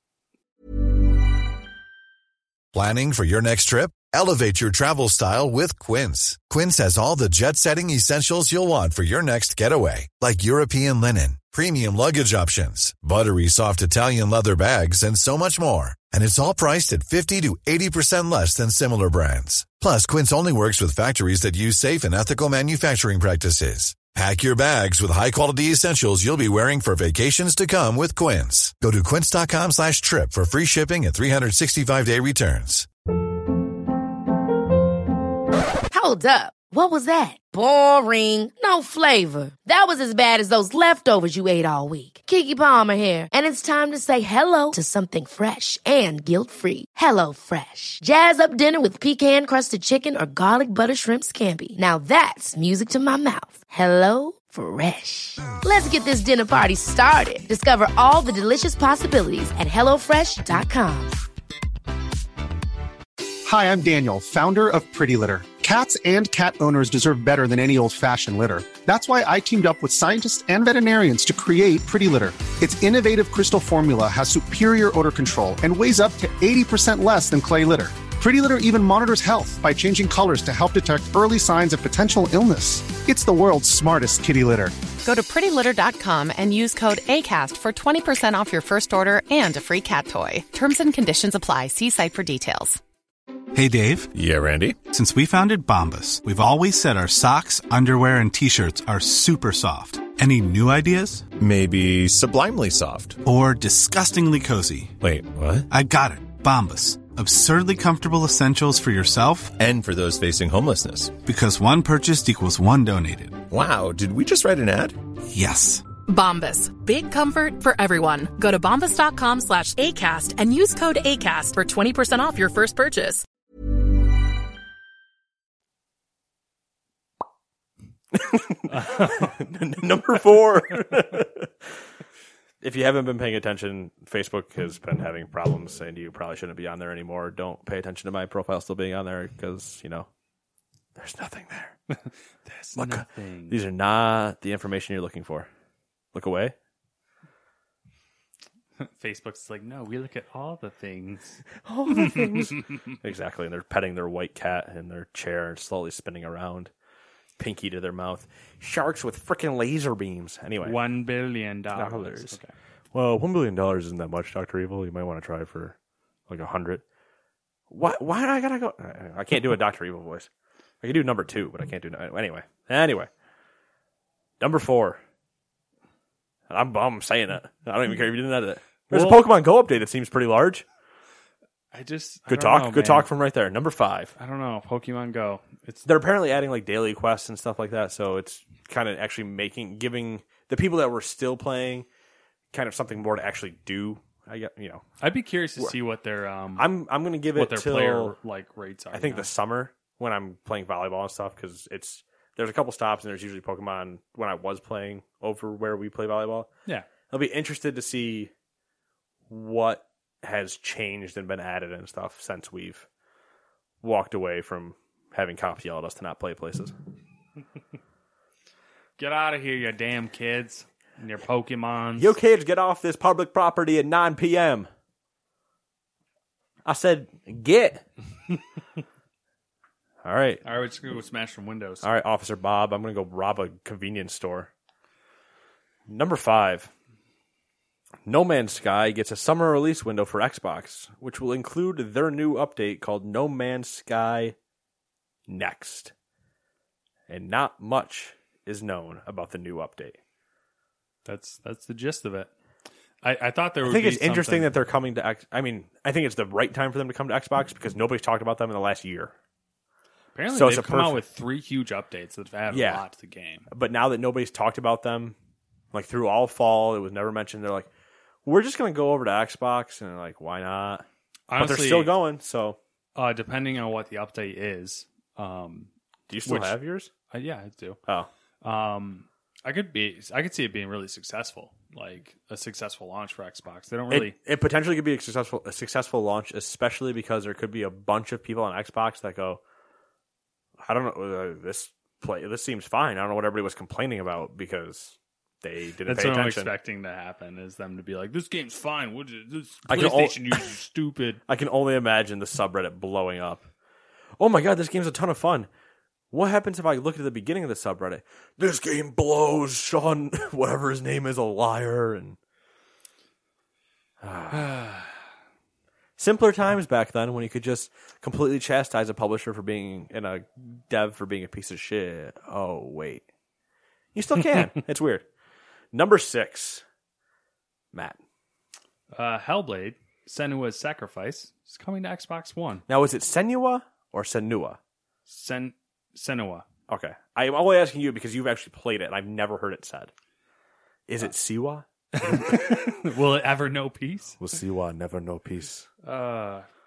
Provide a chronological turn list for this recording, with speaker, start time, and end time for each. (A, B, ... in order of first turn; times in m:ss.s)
0:02.7-0:32.9 A
0:35.9-1:01.2 B
1:03.4-1:24.8 C
1:25.0-1:32.8 D
1:33.5-1:34.1 E
1:34.1-1:34.8 F
1:34.9-1:41.3 E
1:41.4-1:43.2 F
1:43.2-1:45.0 E
1:45.0-1:45.7 F
1:45.7-1:49.6 E
1:49.5-1:51.2 F
1:51.2-1:53.4 E
1:53.5-1:55.0 F
1:55.3-1:55.9 E
1:56.1-2:03.2 G
2:08.1-2:11.5 H
2:08.8-2:09.3 I
2:12.6-2:20.1 H
2:21.0-2:21.8 H
2:22.5-2:23.6 I
2:22.8-2:25.5 H
2:26.1-2:26.6 H
2:28.8-2:32.5 I
2:31.7-2:36.7 H
2:37.4-2:40.8 H
2:40.6-2:42.5 I
2:41.7-2:42.4 H
2:42.9-2:45.8 H
2:46.3-2:46.8 H
2:47.7-2:50.3 H
2:50.8-2:53.1 H
2:54.4-2:55.0 H
2:56.5-3:00.6 H
2:58.9-2:59.2 I
3:01.7-3:03.1 I
3:02.3-3:04.1 H
3:04.2-3:05.8 I
3:05.8-3:11.9 H
3:12.5-3:14.8 H
3:15.0-3:16.7 I
3:16.6-3:18.2 H
3:17.3-3:19.3 I
3:18.9-3:26.5 H
3:27.1-3:28.3 H
3:29.3-3:32.9 H
3:33.8-3:36.7 H
3:39.0-3:42.2 I
3:42.0-3:44.7 H
3:46.6-3:47.8 H
3:50.0-3:50.4 H
3:50.4-3:51.9 I
3:51.8-3:54.5 H
3:55.9-3:56.7 H
3:58.0-4:04.4 H
4:05.3-4:05.9 H
4:07.1-4:10.0 H
4:11.0-4:12.3 I
4:13.0-4:14.5 I
4:13.6-4:19.1 H
4:20.2-4:23.5 I
4:20.3-4:21.0 H
4:22.5-4:22.8 H
4:23.5-4:25.2 H
4:25.7-4:27.7 H
4:28.2-4:30.9 H
4:31.3-4:32.0 I
4:31.4-4:32.6 H
4:33.0-4:35.7 I
4:36.1-4:36.9 H
4:36.2-4:36.6 I
4:37.1-4:37.8 I
4:38.4-4:44.2 I
4:43.9-4:49.4 H
4:50.6-4:56.5 H
4:55.9-5:01.2 I
4:59.7-5:00.5 H
5:01.3-5:03.5 H
5:04.2-5:05.5 H
5:06.1-5:12.2 H
5:14.0-5:14.5 H
5:14.4-5:14.8 I
5:16.0-5:23.0 H
5:24.0-5:25.1 H
5:25.7-5:26.6 H
5:27.7-5:28.0 H
5:28.9-5:32.6 I
5:32.7-5:34.6 H
5:35.1-5:36.5 I
5:36.7-5:39.9 H
5:40.9-5:42.3 H
5:41.9-5:44.2 I
5:44.2-5:45.7 H
5:45.8-5:46.5 I